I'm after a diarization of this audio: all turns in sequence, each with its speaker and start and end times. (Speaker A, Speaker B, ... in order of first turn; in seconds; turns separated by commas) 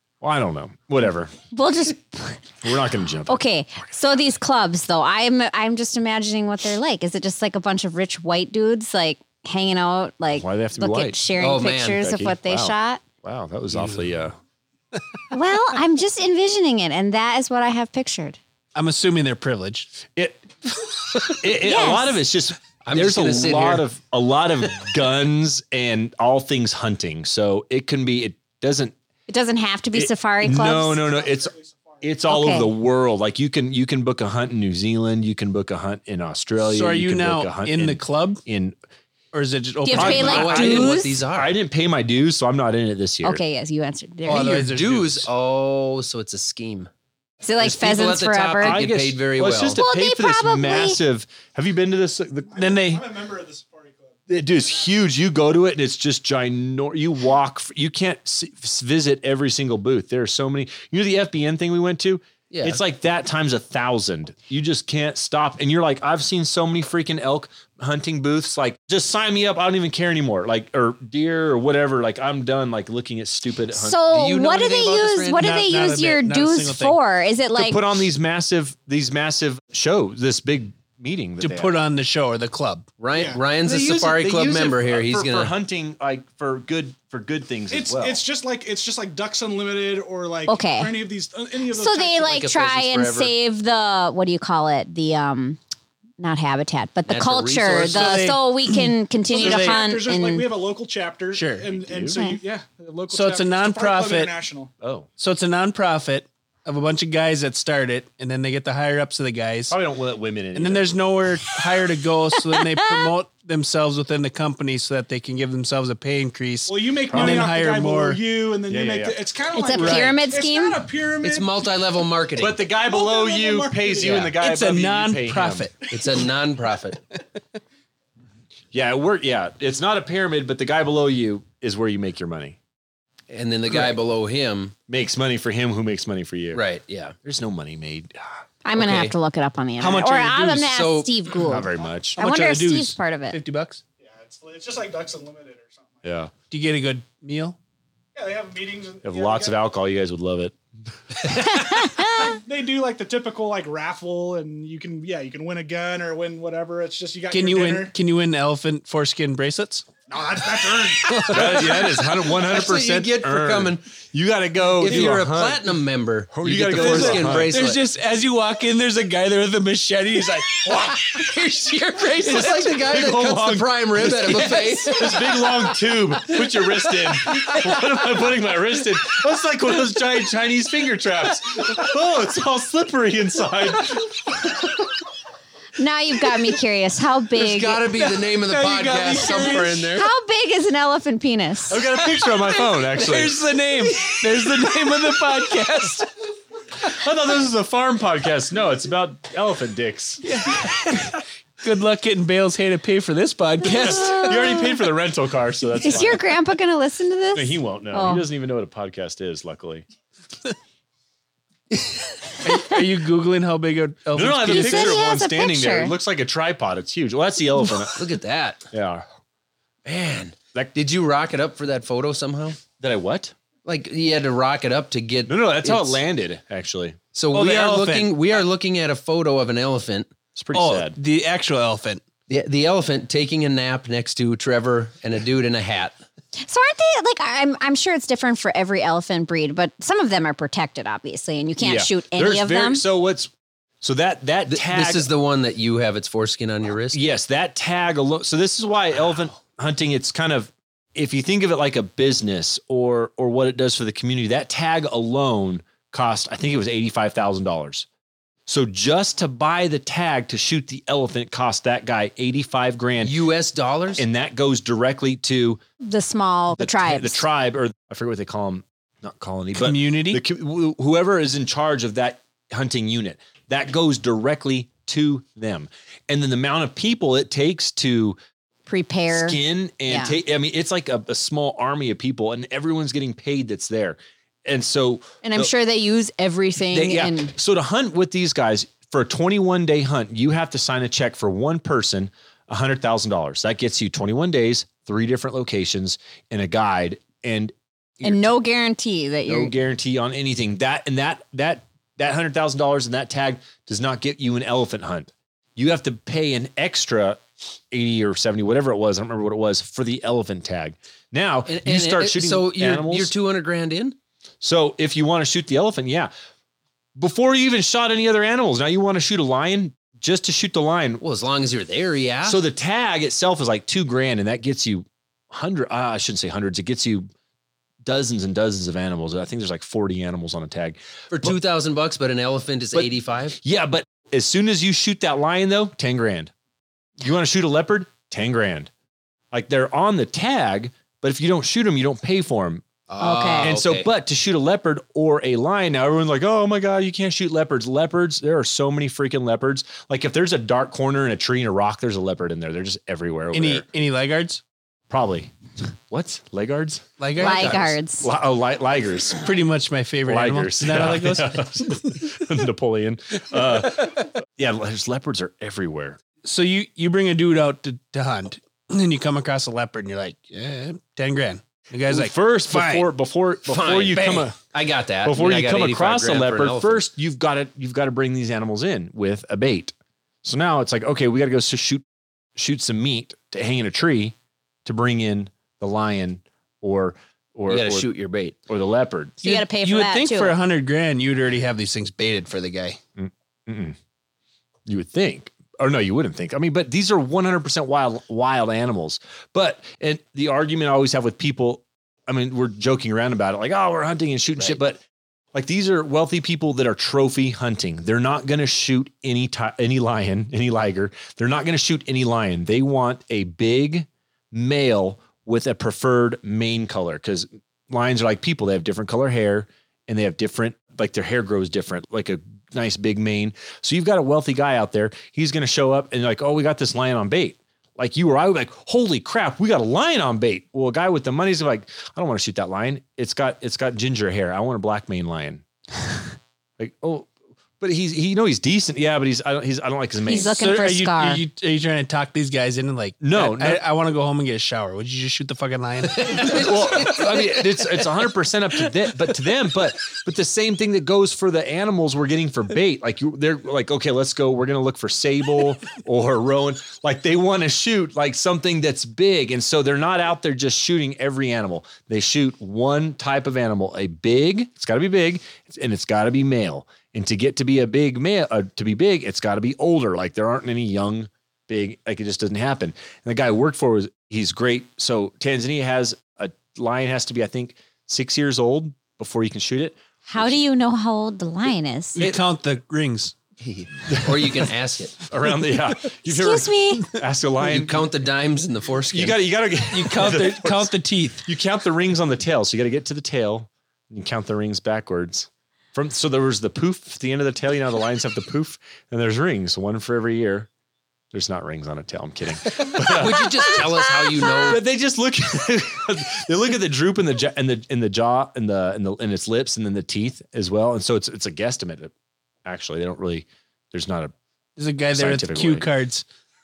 Speaker A: 0.2-1.3, Speaker B: 1.5-2.4, Speaker A: 2.6-3.4, Speaker B: 3.3-13.0, Speaker A: 10.3-11.2, Speaker C: 11.4-12.0, Speaker A: 12.0-14.4, Speaker B: 15.3-18.4, Speaker D: 18.7-20.0, Speaker A: 20.1-28.9, Speaker B: 21.6-22.1, Speaker C: 22.8-23.9, Speaker B: 29.3-31.1, Speaker A: 29.9-38.8, Speaker E: 31.2-32.0, Speaker B: 32.3-32.7, Speaker D: 36.6-38.4, Speaker D: 39.3-40.9, Speaker B: 39.8-41.2, Speaker A: 39.9-40.8, Speaker C: 39.9-41.5, Speaker A: 41.3-43.4, Speaker B: 43.2-44.7, Speaker D: 44.2-45.3, Speaker C: 44.3-46.9, Speaker B: 47.4-48.8, Speaker C: 47.6-49.8, Speaker A: 48.6-53.1, Speaker B: 49.7-51.0, Speaker E: 52.5-54.9, Speaker D: 52.6-53.0, Speaker A: 54.3-74.0, Speaker C: 62.5-62.8, Speaker B: 73.7-77.8, Speaker C: 74.1-75.5, Speaker D: 75.3-77.0, Speaker A: 77.5-81.8, Speaker D: 81.4-82.9, Speaker C: 83.0-85.5, Speaker E: 83.1-83.4, Speaker A: 83.6-88.2, Speaker E: 87.7-92.4, Speaker B: 90.5-91.0, Speaker B: 91.7-95.6, Speaker C: 92.2-93.3, Speaker B: 96.2-100.5, Speaker A: 97.1-98.2, Speaker D: 97.8-99.8, Speaker E: 99.3-104.7, Speaker D: 101.3-101.7, Speaker A: 101.8-102.2, Speaker B: 102.1-102.4, Speaker D: 103.1-104.3, Speaker A: 104.8-105.1, Speaker D: 105.2-109.8, Speaker A: 109.7-111.0, Speaker D: 110.5-118.2, Speaker B: 112.5-113.1, Speaker E: 116.7-121.5, Speaker A: 117.1-117.5, Speaker A: 118.7-119.2, Speaker B: 119.5-120.8, Speaker D: 119.7-120.2, Speaker C: 121.2-122.6, Speaker A: 122.4-125.7, Speaker E: 122.7-124.4, Speaker D: 124.2-126.0, Speaker C: 125.9-127.0, Speaker A: 128.7-132.6, Speaker C: 133.3-134.7, Speaker A: 134.9-136.6, Speaker C: 136.5-137.1, Speaker A: 137.2-138.4, Speaker B: 138.6-143.4, Speaker D: 139.8-140.7, Speaker C: 140.7-141.1, Speaker A: 141.4-142.2, Speaker D: 142.2-143.8, Speaker E: 144.0-146.0, Speaker A: 146.0-146.3, Speaker D: 146.5-147.6, Speaker E: 148.1-149.6, Speaker A: 149.0-150.5, Speaker B: 151.4-152.4, Speaker E: 151.8-157.9, Speaker D: 157.3-159.9, Speaker E: 160.1-161.4, Speaker D: 160.8-162.0, Speaker A: 161.3-165.6, Speaker C: 162.2-163.8, Speaker C: 164.8-167.8, Speaker A: 166.3-167.6, Speaker D: 166.7-172.7, Speaker C: 172.1-175.1, Speaker A: 172.3-184.8, Speaker D: 174.3-175.6, Speaker D: 176.3-177.8, Speaker B: 185.8-187.8, Speaker C: 187.3-190.1, Speaker D: 188.2-189.7, Speaker E: 188.6-189.8, Speaker B: 189.9-191.8, Speaker A: 191.7-193.4, Speaker D: 192.0-196.1, Speaker A: 196.8-200.4, Speaker D: 200.2-204.6, Speaker A: 203.6-206.3, Speaker B: 203.8-204.7, Speaker B: 205.8-208.2, Speaker A: 207.3-209.8, Speaker D: 211.8-215.0, Speaker B: 212.5-212.7, Speaker A: 214.1-218.0, Speaker B: 214.4-215.9, Speaker C: 217.9-218.7, Speaker A: 218.7-219.1, Speaker C: 219.8-222.6, Speaker A: 222.8-223.3, Speaker C: 223.7-226.0, Speaker A: 225.2-227.0, Speaker C: 227.1-230.1, Speaker D: 227.3-228.2, Speaker A: 230.3-230.9, Speaker D: 230.5-232.0, Speaker C: 232.3-235.9, Speaker B: 236.4-242.8, Speaker A: 241.6-243.3, Speaker A: 243.8-245.1, Speaker C: 244.5-247.0, Speaker A: 246.9-257.9, Speaker A: 258.5-263.1, Speaker C: 263.0-264.0, Speaker A: 263.9-265.6, Speaker B: 265.8-267.2, Speaker A: 266.5-278.2, Speaker D: 269.6-270.2, Speaker B: 278.7-280.2, Speaker A: 279.1-285.5, Speaker B: 285.2-287.3, Speaker A: 286.7-298.3, Speaker B: 298.0-299.5, Speaker A: 299.3-313.1, Speaker C: 311.5-313.9, Speaker A: 314.4-316.1, Speaker A: 316.9-321.0, Speaker C: 321.0-322.4, Speaker A: 322.2-327.1, Speaker A: 327.8-331.4, Speaker C: 331.1-333.4, Speaker A: 332.7-336.3, Speaker A: 337.0-338.7, Speaker A: 339.3-342.7, Speaker C: 342.9-343.9, Speaker B: 343.0-343.5, Speaker A: 343.4-353.6, Speaker D: 353.3-354.4, Speaker A: 354.9-355.3, Speaker A: 355.9-359.2, Speaker D: 357.0-357.8, Speaker B: 357.2-358.1, Speaker D: 359.2-362.0, Speaker A: 360.1-366.0, Speaker D: 366.2-372.9, Speaker A: 371.9-374.4, Speaker C: 373.5-376.8, Speaker A: 375.0-381.8, Speaker A: 382.4-387.9, Speaker C: 387.5-388.4, Speaker A: 388.5-389.2, Speaker B: 389.2-390.4, Speaker D: 389.2-392.8, Speaker A: 393.0-393.8, Speaker A: 394.6-404.8, Speaker A: 405.3-435.4, Speaker A: 436.6-440.4, Speaker B: 440.1-441.2, Speaker D: 440.1-446.9, Speaker A: 443.0-443.6, Speaker C: 446.0-447.1, Speaker A: 446.3-480.4, Speaker B: 480.1-482.0, Speaker D: 481.9-483.1, Speaker C: 483.4-485.0, Speaker A: 483.9-484.4, Speaker A: 485.1-487.9, Speaker B: 486.0-486.9, Speaker C: 487.4-489.2, Speaker A: 488.9-490.7, Speaker D: 489.7-491.2, Speaker A: 491.2-500.5, Speaker A: 501.1-511.9, Speaker C: 502.5-504.6, Speaker A: 512.4-514.1, Speaker D: 514.6-516.0, Speaker A: 514.9-515.7